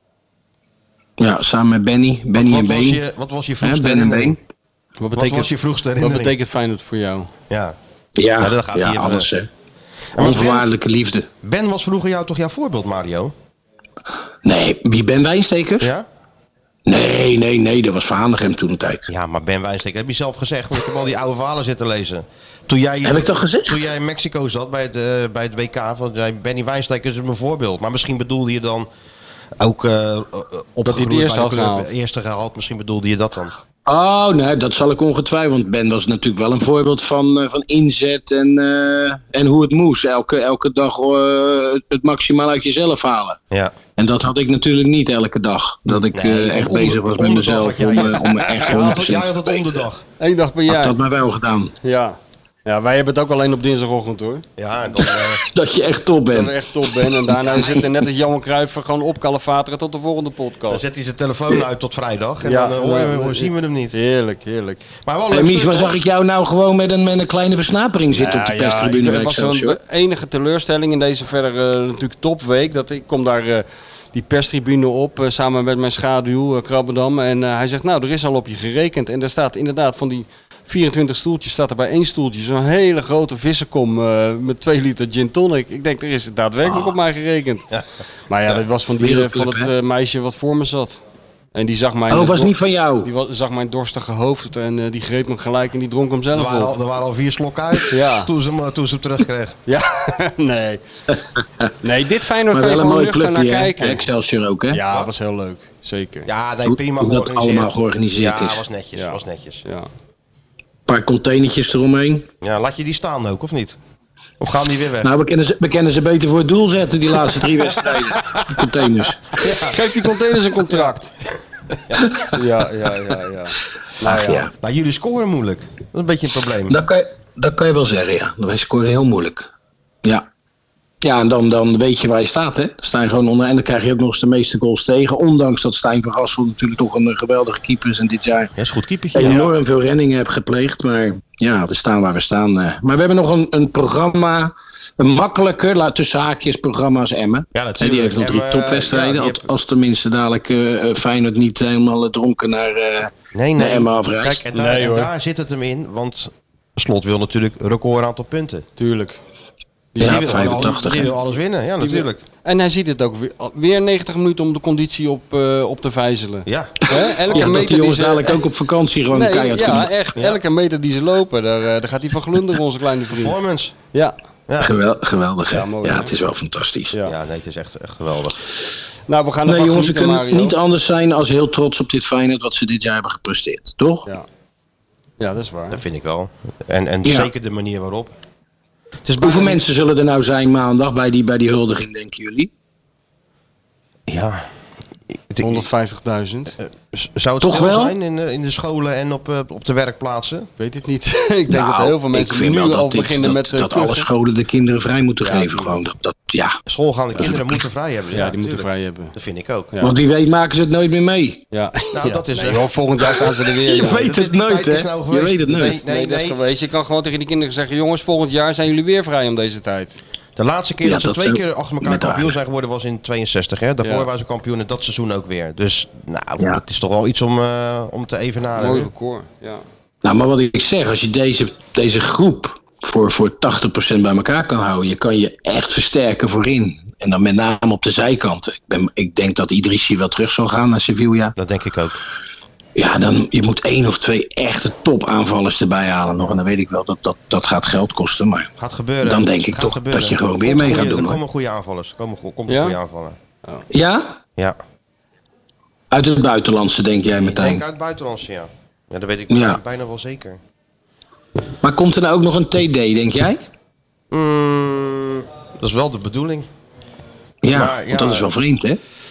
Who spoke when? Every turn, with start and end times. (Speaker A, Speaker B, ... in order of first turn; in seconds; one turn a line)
Speaker A: 1.2-3.0
Speaker B: 2.3-4.4
Speaker A: 3.6-4.4
Speaker C: 5.0-7.3
Speaker B: 5.2-6.3
Speaker B: 7.5-7.8
Speaker A: 8.2-9.5
Speaker B: 8.4-9.3
Speaker B: 10.2-10.7
Speaker A: 10.2-11.3
Speaker B: 11.4-13.3
Speaker A: 14.4-15.9
Speaker B: 15.8-16.1
Speaker A: 16.9-19.1
Speaker B: 19.1-28.9
Speaker A: 23.0-23.9
Speaker B: 29.6-33.5
Speaker C: 30.9-31.9
Speaker A: 33.9-43.4
Speaker A: 44.0-49.8
Speaker B: 45.9-50.0
Speaker C: 50.2-51.0
Speaker A: 50.7-51.7
Speaker C: 51.8-54.4
Speaker B: 54.6-55.4
Speaker A: 55.0-58.1
Speaker C: 56.3-60.9
Speaker B: 60.7-64.0
Speaker C: 62.4-64.9
Speaker B: 65.0-66.0
Speaker A: 65.3-69.8
Speaker C: 68.1-87.7
Speaker C: 88.3-91.0
Speaker A: 89.0-89.7
Speaker C: 91.5-96.7
Speaker A: 92.1-93.1
Speaker B: 96.3-99.6
Speaker C: 97.9-98.3
Speaker C: 99.7-100.8
Speaker C: 101.8-104.0
Speaker A: 102.5-104.8
Speaker C: 104.7-106.3
Speaker B: 106.3-109.6
Speaker A: 106.7-108.6
Speaker C: 109.0-109.9
Speaker A: 110.9-112.3
Speaker B: 112.4-113.8
Speaker B: 114.4-115.2
Speaker A: 115.0-119.3
Speaker B: 119.4-119.8
Speaker C: 119.6-121.1
Speaker B: 120.7-121.0
Speaker A: 122.1-122.3
Speaker C: 122.3-124.5
Speaker A: 124.0-124.5
Speaker B: 124.5-126.8
Speaker A: 126.7-129.5
Speaker A: 131.0-138.6
Speaker B: 138.6-139.5
Speaker A: 139.1-154.5
Speaker B: 147.5-149.5
Speaker B: 153.3-158.7
Speaker C: 154.5-155.1
Speaker C: 158.8-159.2
Speaker C: 159.9-161.0
Speaker A: 160.0-161.1
Speaker B: 160.0-162.2
Speaker C: 161.8-168.4
Speaker B: 166.5-167.7
Speaker A: 166.9-169.9
Speaker C: 169.1-173.4
Speaker B: 170.2-170.4
Speaker B: 173.1-173.8
Speaker B: 174.5-174.8
Speaker A: 174.6-176.9
Speaker C: 175.5-176.1
Speaker B: 177.0-178.4
Speaker C: 179.1-180.6
Speaker A: 179.4-184.1
Speaker C: 185.2-185.8
Speaker B: 185.7-188.1
Speaker A: 187.0-187.3
Speaker B: 189.1-189.6
Speaker A: 189.2-192.5
Speaker B: 194.1-194.4
Speaker B: 195.3-195.7
Speaker C: 195.4-196.6
Speaker B: 196.6-200.5
Speaker A: 197.4-197.9
Speaker C: 200.6-204.1
Speaker A: 201.5-206.6
Speaker C: 205.3-205.7
Speaker B: 206.7-209.7
Speaker A: 207.2-207.5
Speaker C: 208.1-209.1
Speaker A: 209.8-211.4
Speaker C: 211.5-214.1
Speaker B: 211.9-213.2
Speaker A: 213.1-215.8
Speaker B: 213.7-216.4
Speaker C: 215.7-220.0
Speaker B: 220.4-228.9
Speaker A: 220.8-222.4
Speaker C: 223.8-224.1
Speaker C: 228.6-229.6
Speaker A: 230.0-241.3
Speaker B: 241.4-242.0
Speaker A: 242.8-248.5
Speaker B: 248.6-253.2
Speaker A: 249.0-251.2
Speaker C: 252.5-252.8
Speaker A: 253.7-254.2
Speaker A: 255.9-257.6
Speaker B: 257.2-260.4
Speaker A: 259.3-259.6
Speaker A: 261.6-263.4
Speaker B: 264.1-266.5
Speaker A: 267.4-268.8
Speaker B: 267.5-268.3